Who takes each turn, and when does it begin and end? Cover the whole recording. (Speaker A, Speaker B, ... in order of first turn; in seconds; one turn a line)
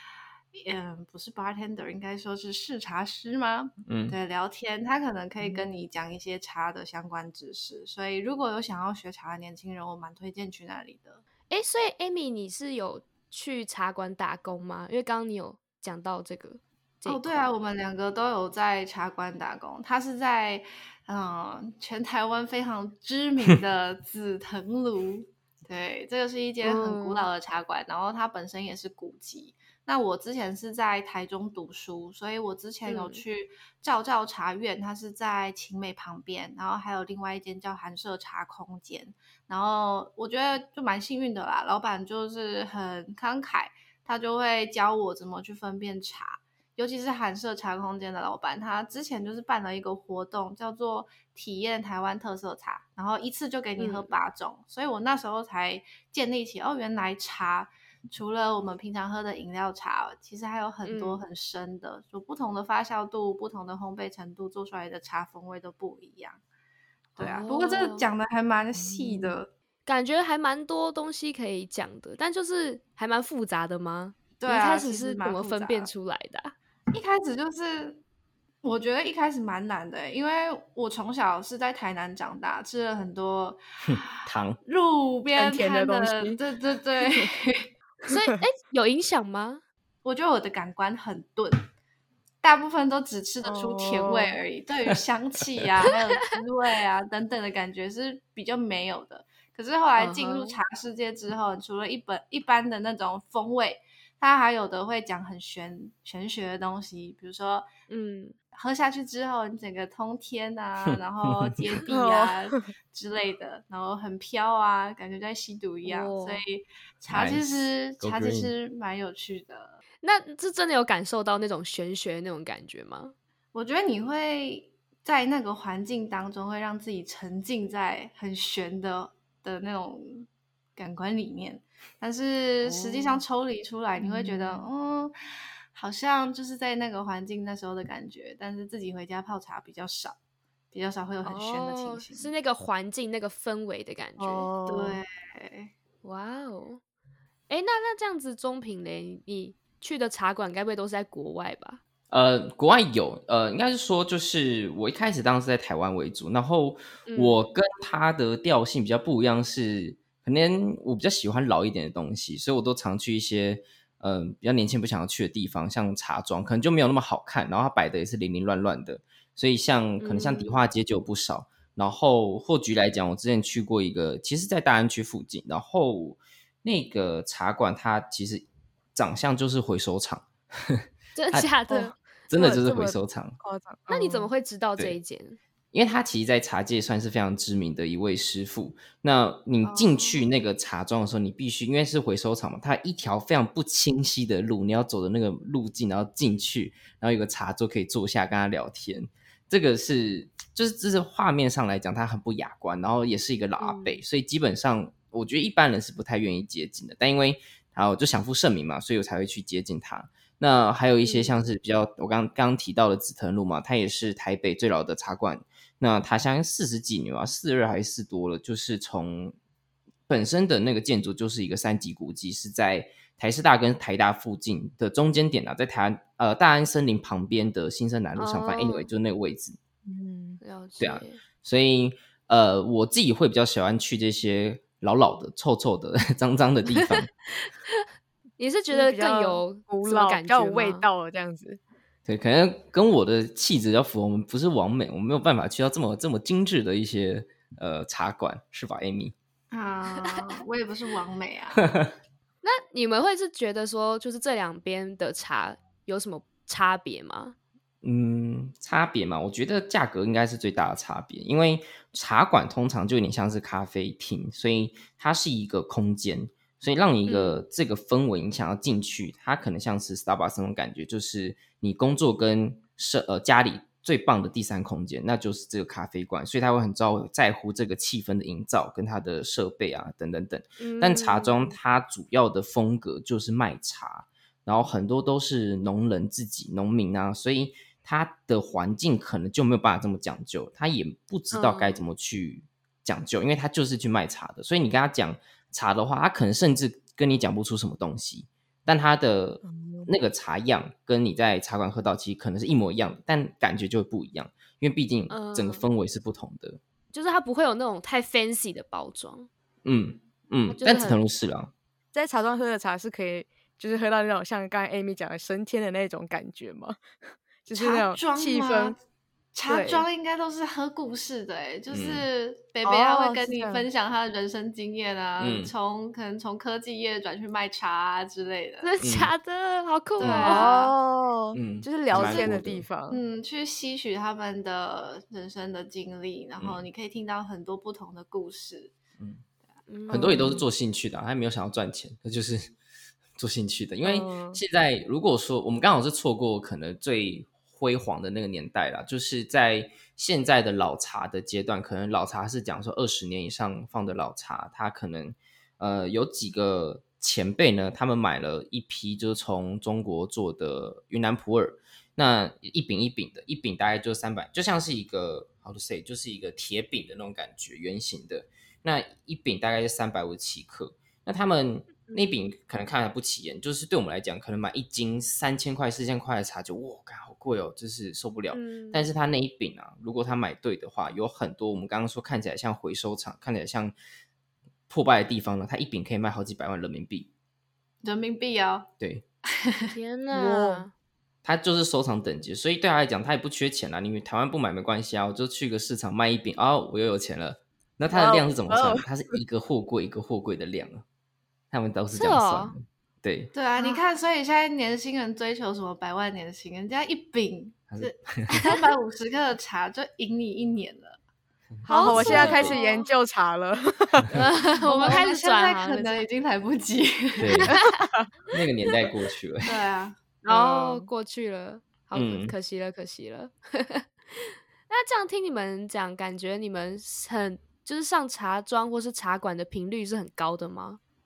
Speaker A: 0.5-11.2
Speaker B: 3.9-4.2
Speaker C: 11.5-17.5
Speaker A: 17.1-66.4
Speaker C: 26.6-27.3
Speaker C: 32.9-33.2
Speaker C: 53.8-54.1
Speaker C: 60.8-61.2
Speaker A: 67.2-69.5
Speaker C: 67.2-68.0
Speaker D: 68.7-69.4
Speaker C: 69.8-76.5
Speaker A: 74.4-75.9
Speaker A: 76.9-78.0
Speaker A: 78.6-83.6
Speaker B: 83.8-84.6
Speaker A: 84.6-87.7
Speaker D: 85.3-86.4
Speaker C: 88.1-89.6
Speaker A: 90.0-91.7
Speaker A: 92.4-107.7
Speaker D: 93.4-94.4
Speaker C: 100.0-100.6
Speaker C: 107.9-108.3
Speaker A: 108.5-119.8
Speaker B: 110.9-111.6
Speaker D: 111.9-112.6
Speaker C: 115.8-116.4
Speaker B: 117.1-117.4
Speaker B: 118.0-118.5
Speaker C: 120.0-123.1
Speaker A: 123.5-135.1
Speaker C: 132.6-133.2
Speaker D: 134.0-134.7
Speaker A: 135.7-140.2
Speaker A: 140.7-142.3
Speaker C: 141.2-144.5
Speaker D: 144.2-145.0
Speaker A: 144.7-145.7
Speaker C: 146.0-146.8
Speaker C: 147.5-151.8
Speaker B: 152.1-181.5
Speaker C: 157.1-157.4
Speaker C: 170.0-170.6
Speaker C: 181.1-182.0
Speaker D: 181.7-184.3
Speaker B: 182.3-183.3
Speaker C: 183.9-185.4
Speaker B: 185.7-219.3
Speaker A: 189.7-190.2
Speaker C: 203.6-204.0
Speaker C: 211.0-211.3
Speaker B: 220.1-229.6
Speaker C: 228.2-228.9
Speaker D: 229.8-230.4
Speaker C: 230.4-231.2
Speaker B: 230.8-237.1
Speaker C: 237.4-237.8
Speaker C: 238.4-240.8
Speaker D: 238.7-241.6
Speaker B: 242.1-249.1
Speaker A: 249.5-251.6
Speaker B: 251.6-251.9
Speaker C: 252.4-257.4
Speaker B: 257.8-306.6
Speaker C: 267.1-267.4
Speaker C: 280.6-281.5
Speaker C: 291.3-291.8
Speaker D: 299.4-299.9
Speaker C: 305.1-305.7
Speaker C: 306.9-309.3
Speaker B: 309.6-311.5
Speaker C: 310.5-311.0
Speaker D: 311.9-316.8
Speaker D: 317.4-318.8
Speaker A: 317.5-318.8
Speaker A: 319.3-328.7
Speaker D: 319.5-319.9
Speaker B: 321.7-322.1
Speaker D: 322.6-323.7
Speaker B: 325.2-325.5
Speaker C: 328.6-330.6
Speaker B: 328.8-329.1
Speaker A: 330.0-330.7
Speaker B: 330.0-330.3
Speaker D: 330.2-333.0
Speaker B: 331.3-332.6
Speaker A: 332.0-332.3
Speaker A: 332.9-338.7
Speaker B: 336.4-336.6
Speaker C: 339.7-340.3
Speaker B: 339.9-342.5
Speaker D: 339.9-340.4
Speaker B: 343.2-383.7
Speaker D: 343.8-344.4
Speaker C: 371.9-372.1
Speaker C: 378.3-378.9
Speaker B: 384.7-387.1
Speaker A: 387.8-388.7
Speaker A: 389.4-389.7
Speaker C: 389.7-390.7
Speaker D: 390.1-390.6
Speaker B: 391.2-400.8
Speaker D: 397.9-399.2
Speaker B: 401.5-403.3
Speaker C: 401.9-402.5
Speaker A: 403.3-411.0
Speaker B: 407.7-408.5
Speaker B: 411.6-412.5
Speaker C: 411.7-412.9
Speaker D: 411.7-414.1
Speaker C: 414.1-416.0
Speaker A: 414.6-417.5
Speaker B: 417.2-417.6
Speaker C: 417.5-417.8
Speaker D: 417.5-418.1
Speaker B: 418.3-419.6
Speaker A: 419.4-420.0
Speaker C: 420.2-430.8
Speaker D: 420.3-420.9
Speaker B: 421.9-422.3